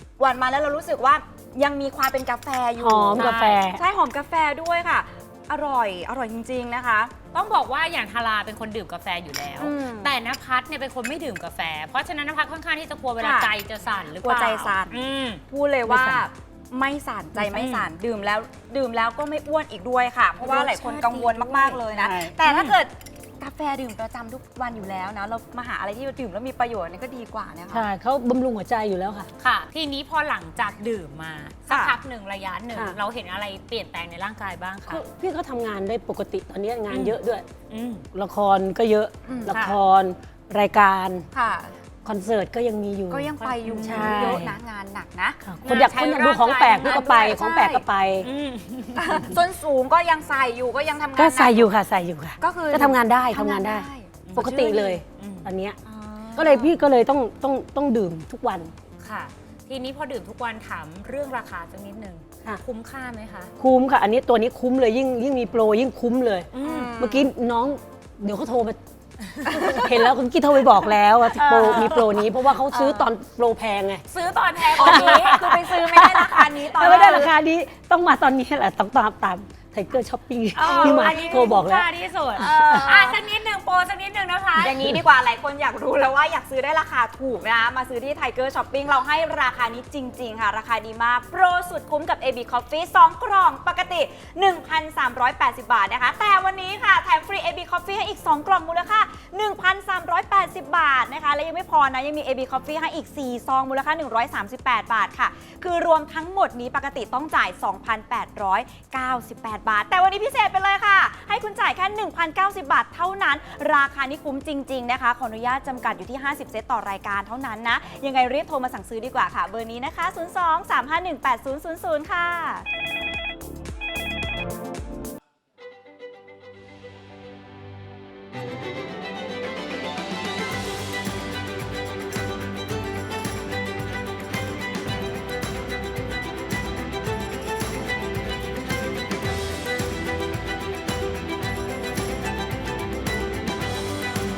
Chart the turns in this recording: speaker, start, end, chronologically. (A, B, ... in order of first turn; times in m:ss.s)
0:00.2-0:07.1 A
0:02.8-0:03.8 B
0:03.2-0:03.6 C
0:07.3-0:15.4 C
0:09.6-0:10.1 A
0:13.2-0:13.5 A
0:14.2-0:15.0 A
0:15.5-0:27.8 A
0:15.9-0:16.2 B
0:17.4-0:17.9 C
0:20.5-0:21.0 C
0:20.5-0:22.3 B
0:22.4-0:22.8 C
0:27.7-0:29.3 B
0:29.4-0:35.0 C
0:31.7-0:31.9 A
0:32.7-0:33.0 B
0:34.9-0:37.5 B
0:37.7-0:38.0 C
0:38.1-0:41.3 B
0:39.2-0:39.5 A
0:39.5-0:39.8 C
0:41.3-0:41.8 A
0:42.0-0:43.3 B
0:43.1-0:45.9 A
0:43.4-0:44.4 C
0:43.8-0:44.5 B
0:45.4-0:48.3 B
0:45.6-0:47.3 C
0:46.8-0:47.8 A
0:48.2-0:49.3 C
0:48.9-0:51.7 A
0:51.2-0:55.8 B
0:52.4-0:55.0 A
0:54.3-0:55.5 C
0:55.8-0:56.7 A
0:56.4-0:58.7 B
0:59.0-1:03.5 C
1:03.6-1:08.8 B
1:06.5-1:06.9 C
1:06.6-1:07.3 A
1:09.3-1:09.9 C
1:09.4-1:14.0 B
1:09.5-1:09.8 A
1:11.3-1:12.3 C
1:11.4-1:11.9 A
1:12.7-1:13.0 A
1:14.1-1:15.4 C
1:14.8-1:23.1 B
1:14.8-1:17.3 A
1:20.6-1:25.0 C
1:20.6-1:21.5 A
1:22.4-1:23.2 A
1:24.6-2:02.6 A